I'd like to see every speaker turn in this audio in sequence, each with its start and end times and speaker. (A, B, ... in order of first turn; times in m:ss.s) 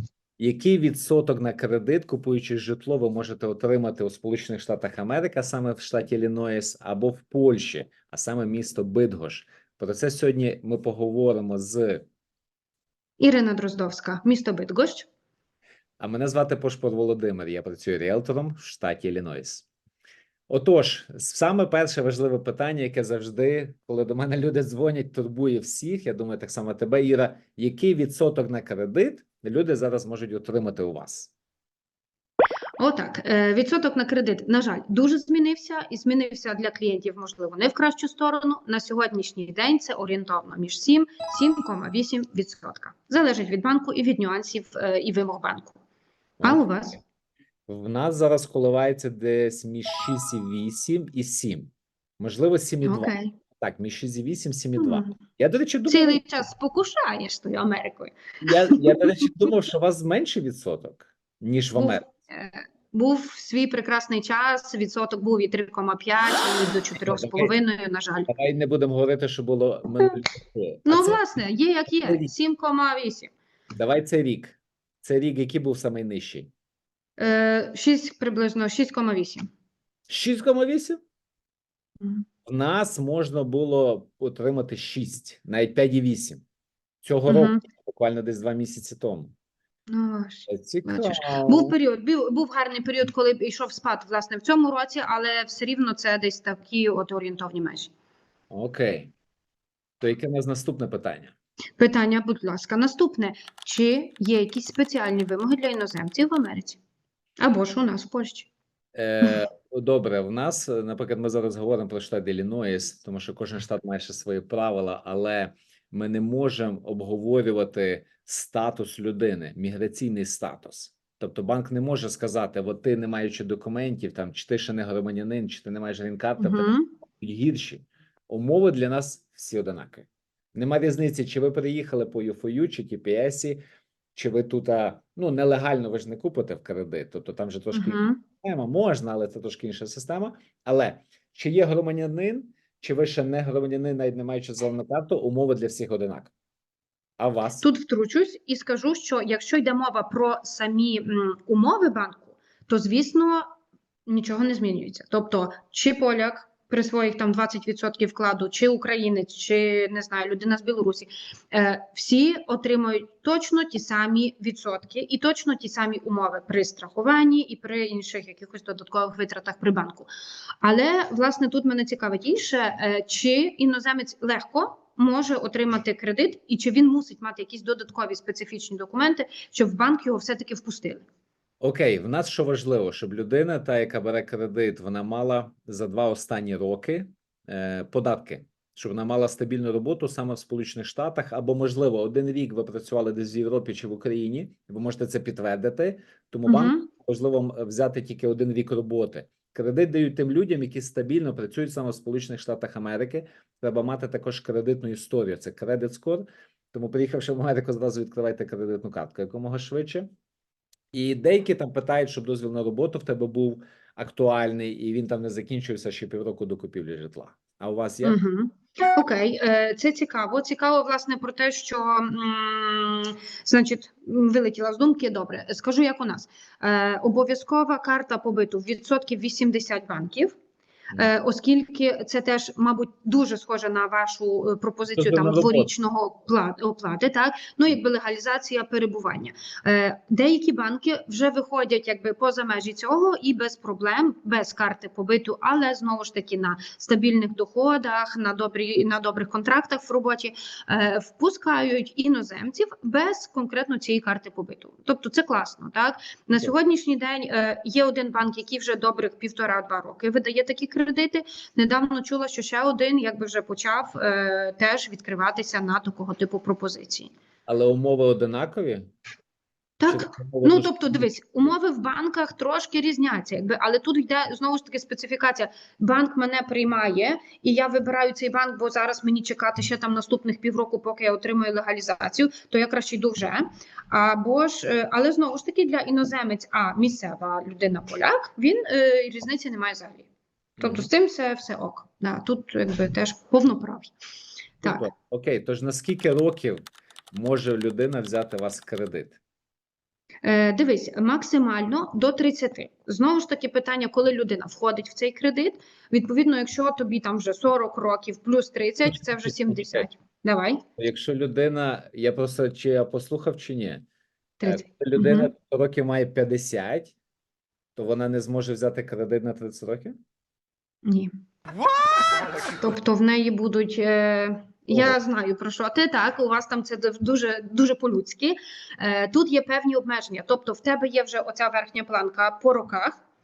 0:00.4-0:12.1 A
0:13.2-0:15.1 B
0:16.0-0:19.7 A
0:20.5-0:31.3 A
0:32.8-0:45.8 B
0:46.4-0:47.0 B
0:47.7-0:56.2 A
0:52.8-0:53.3 B
0:54.8-0:55.1 B
0:55.9-0:58.2 B
0:58.4-1:02.0 A
1:01.7-1:08.3 B
1:07.1-1:07.5 A
1:08.3-1:11.2 A
1:10.9-1:13.3 B
1:12.0-1:12.3 A
1:13.8-1:16.5 A
1:17.2-1:19.5 B
1:20.1-1:21.0 A
1:22.4-1:26.4 A
1:27.0-1:29.3 A
1:27.3-1:27.6 B
1:29.9-1:37.9 B
1:30.5-1:31.8 A
1:38.5-1:39.1 A
1:40.0-1:41.3 A
1:41.8-1:46.8 B
1:47.4-1:48.5 B
1:49.0-2:13.6 A
2:06.4-2:06.9 B
2:14.1-2:26.3 A
2:17.7-2:18.2 B
2:27.2-2:27.7 A
2:27.6-2:33.4 B
2:34.1-2:50.1 B
2:50.6-3:01.0 B
3:01.6-3:30.1 A
3:16.5-3:16.9 B
3:30.9-3:38.2 A
3:38.0-3:50.3 B
3:51.0-4:27.1 B
3:55.0-3:55.7 A
4:27.5-4:28.9 A
4:29.8-4:50.1 B
4:29.9-4:31.5 A
4:50.6-4:50.9 A
4:50.6-4:53.9 B
4:54.6-4:59.2 A
5:00.2-5:10.6 B
5:08.9-5:09.9 A
5:10.8-5:13.8 A
5:14.4-5:15.3 B
5:14.4-5:16.9 A
5:17.8-5:20.0 A
5:20.8-5:21.1 B
5:22.6-5:33.0 B
5:24.7-5:25.0 A